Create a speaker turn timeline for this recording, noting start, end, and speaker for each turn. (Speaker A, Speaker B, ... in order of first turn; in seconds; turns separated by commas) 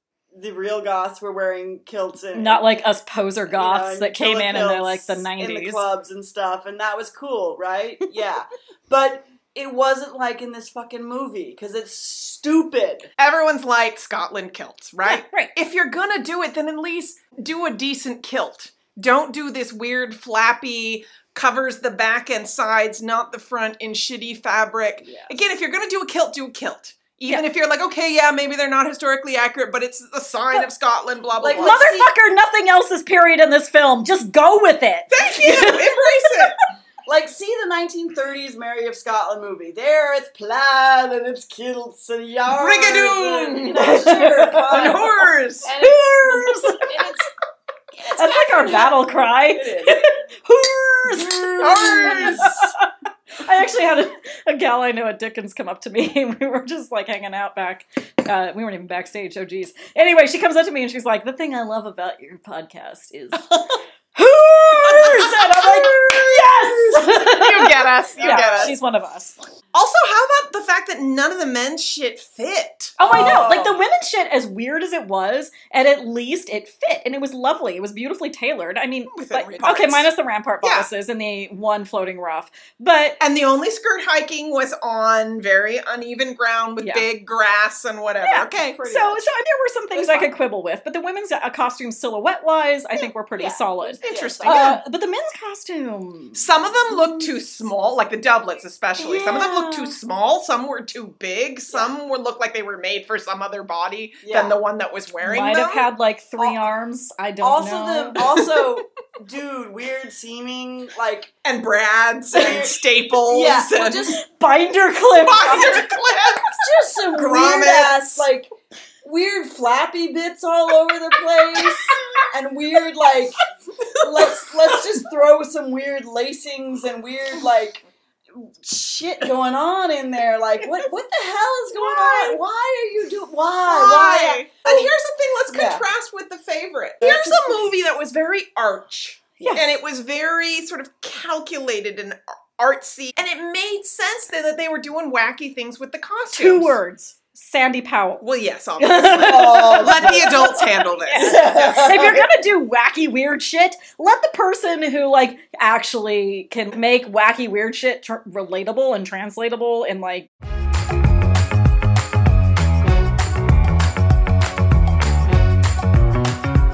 Speaker A: 0.3-2.6, Speaker B: 2.3-5.8, Speaker A: 3.5-13.1, Speaker C: 13.2-31.8, Speaker B: 15.1-15.5, Speaker A: 25.0-25.3, Speaker A: 31.4-32.1, Speaker B: 31.6-36.5, Speaker C: 35.1-36.5, Speaker A: 37.1-47.3, Speaker C: 42.5-44.0, Speaker B: 43.8-46.9, Speaker C: 44.7-45.7, Speaker A: 47.9-50.0, Speaker B: 48.1-52.9, Speaker A: 51.1-52.6, Speaker C: 51.6-52.6, Speaker B: 53.4-63.6, Speaker B: 64.2-69.4, Speaker C: 64.8-68.7, Speaker A: 68.2-68.7, Speaker C: 69.7-73.5, Speaker B: 73.0-83.2, Speaker A: 73.0-73.8, Speaker C: 79.1-80.1, Speaker C: 80.6-80.9, Speaker C: 83.2-89.0, Speaker B: 86.8-87.1, Speaker B: 88.2-97.3, Speaker A: 88.8-89.2, Speaker A: 89.9-90.3, Speaker A: 93.4-94.8, Speaker C: 94.0-94.8, Speaker C: 96.3-105.9, Speaker B: 99.0-100.0, Speaker A: 104.2-104.6, Speaker B: 105.2-108.2, Speaker A: 106.4-106.7, Speaker A: 107.4-111.3, Speaker C: 108.4-108.6, Speaker C: 111.5-114.2, Speaker A: 112.3-114.2, Speaker B: 114.1-115.9, Speaker C: 115.2-118.2, Speaker A: 116.6-118.5, Speaker A: 119.0-123.4, Speaker B: 121.6-122.0, Speaker A: 124.0-134.9, Speaker B: 131.8-132.4, Speaker C: 133.7-146.8, Speaker A: 135.5-135.8, Speaker A: 137.0-137.7, Speaker B: 139.4-139.7, Speaker B: 146.3-148.2, Speaker C: 148.2-151.9, Speaker B: 148.8-160.3, Speaker A: 149.2-152.3